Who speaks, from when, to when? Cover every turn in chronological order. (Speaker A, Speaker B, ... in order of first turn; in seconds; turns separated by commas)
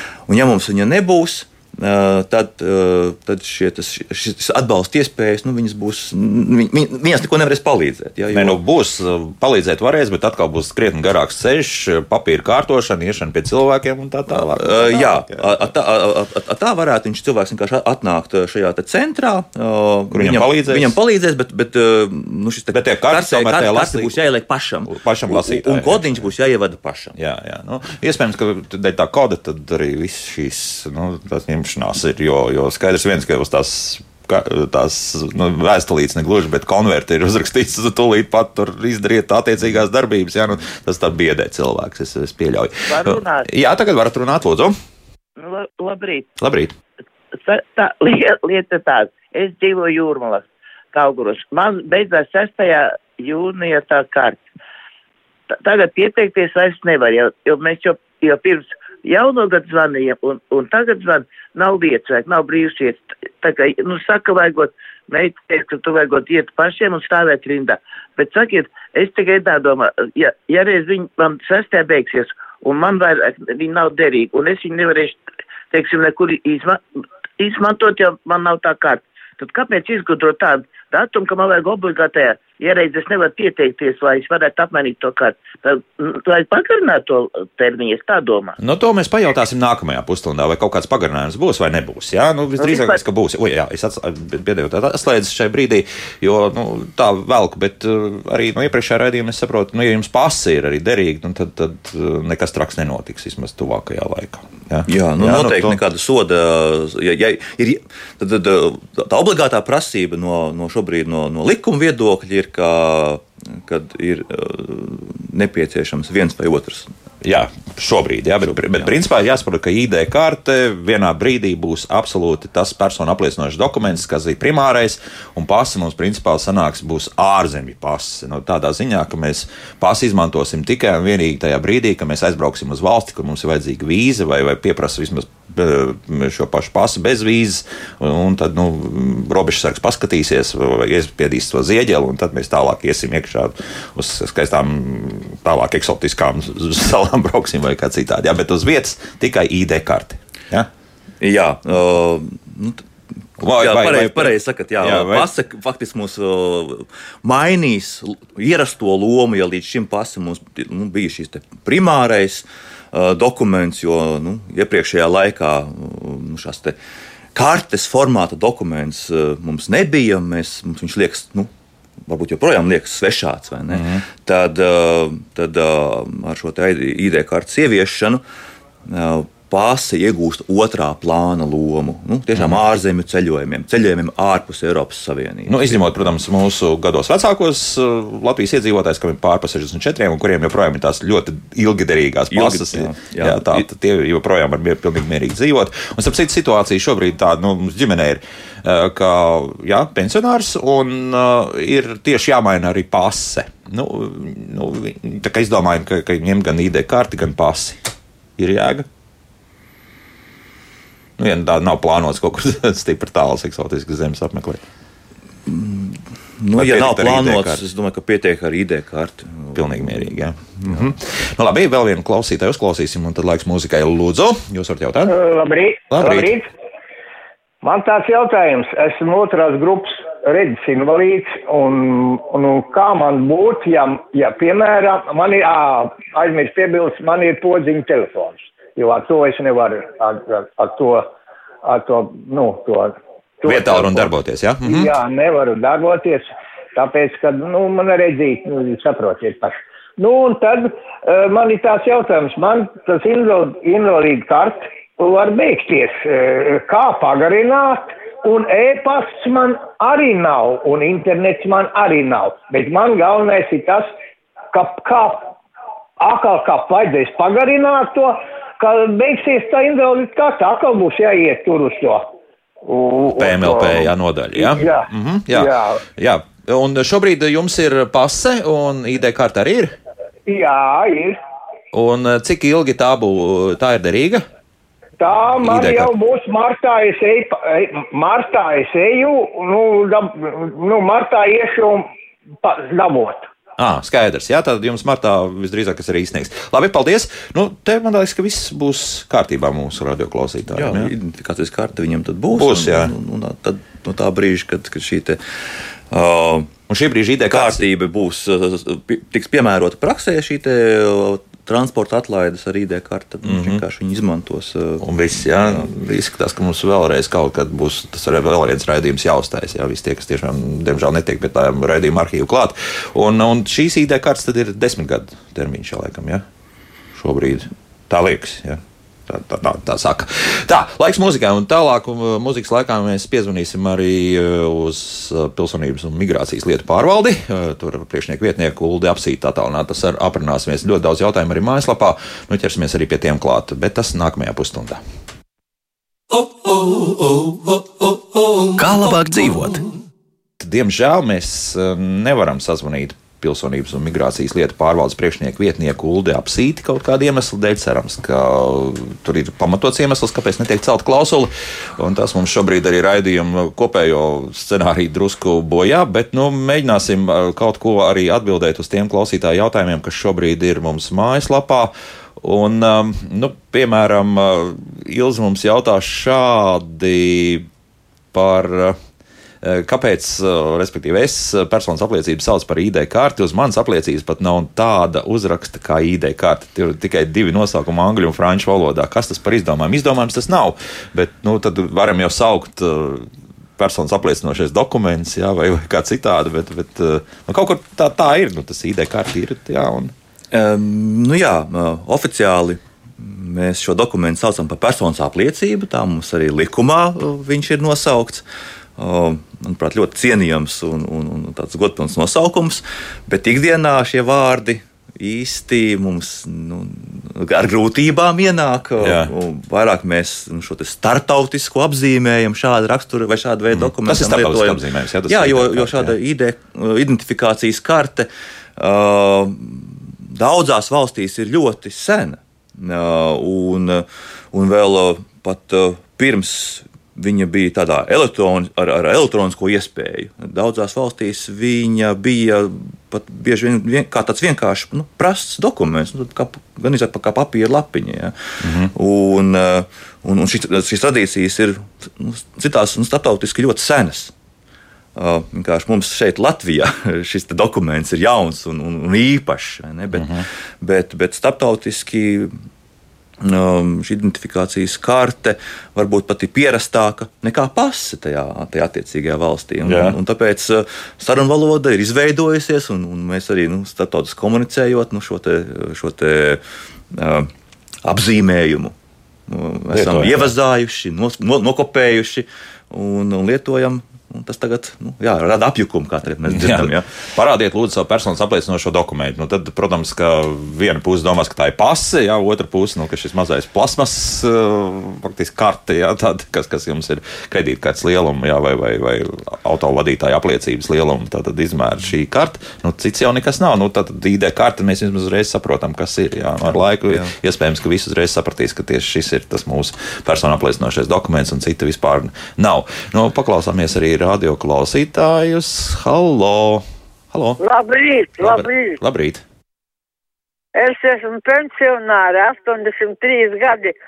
Speaker A: 0.3-8.6, Speaker B: 8.3-15.5, Speaker A: 14.3-27.1, Speaker B: 20.1-20.9, Speaker B: 22.7-24.2, Speaker B: 24.9-26.3, Speaker B: 27.1-44.7, Speaker C: 42.9-43.5, Speaker C: 45.4-46.3, Speaker B: 46.4-46.7, Speaker C: 47.3-54.4, Speaker C: 55.6-75.2, Speaker C: 75.7-76.8, Speaker C: 77.4-88.6, Speaker B: 88.6-105.8, Speaker C: 92.6-93.0, Speaker A: 104.8-116.9, Speaker B: 117.2-150.7, Speaker A: 118.5-118.9, Speaker A: 151.2-152.8, Speaker B: 153.4-155.3, Speaker A: 153.4-166.8, Speaker A: 167.3-171.5, Speaker A: 172.1-178.2, Speaker B: 173.7-174.0, Speaker A: 178.8-185.8, Speaker B: 182.3-182.6, Speaker B: 185.5-207.8, Speaker A: 192.3-193.7, Speaker B: 208.4-208.9, Speaker B: 211.2-214.6, Speaker A: 215.5-220.9, Speaker B: 216.5-217.6, Speaker B: 219.5-225.2, Speaker D: 225.1-226.5, Speaker B: 225.9-226.3, Speaker D: 227.6-241.0, Speaker D: 241.6-244.1, Speaker B: 243.4-244.9, Speaker D: 244.6-246.2, Speaker D: 246.8-263.9, Speaker D: 264.5-265.3, Speaker D: 266.0-272.0, Speaker D: 272.7-273.8, Speaker B: 273.1-279.8, Speaker D: 274.4-275.7, Speaker D: 280.3-281.2, Speaker B: 281.7-284.2, Speaker D: 285.0-291.8, Speaker B: 285.4-285.9, Speaker D: 292.4-293.3, Speaker B: 293.6-300.9, Speaker A: 300.5-305.2, Speaker B: 302.3-302.9, Speaker A: 305.9-306.5, Speaker B: 306.7-307.6, Speaker A: 307.3-315.7, Speaker B: 313.2-313.6, Speaker B: 314.8-326.2, Speaker B: 326.9-344.8, Speaker A: 348.7-349.1, Speaker B: 350.4-377.5, Speaker B: 378.1-378.8, Speaker B: 379.4-399.9, Speaker A: 400.3-408.2, Speaker A: 408.8-448.1, Speaker B: 418.8-419.1, Speaker B: 423.5-425.9, Speaker B: 448.4-448.7, Speaker A: 448.7-454.1, Speaker A: 454.9-462.3, Speaker B: 459.9-460.2, Speaker A: 463.2-477.3, Speaker B: 469.6-470.0, Speaker A: 477.8-478.7, Speaker A: 479.3-486.9, Speaker B: 479.7-480.3, Speaker B: 486.3-517.4, Speaker E: 517.4-518.8, Speaker B: 518.2-519.2, Speaker E: 520.5-523.7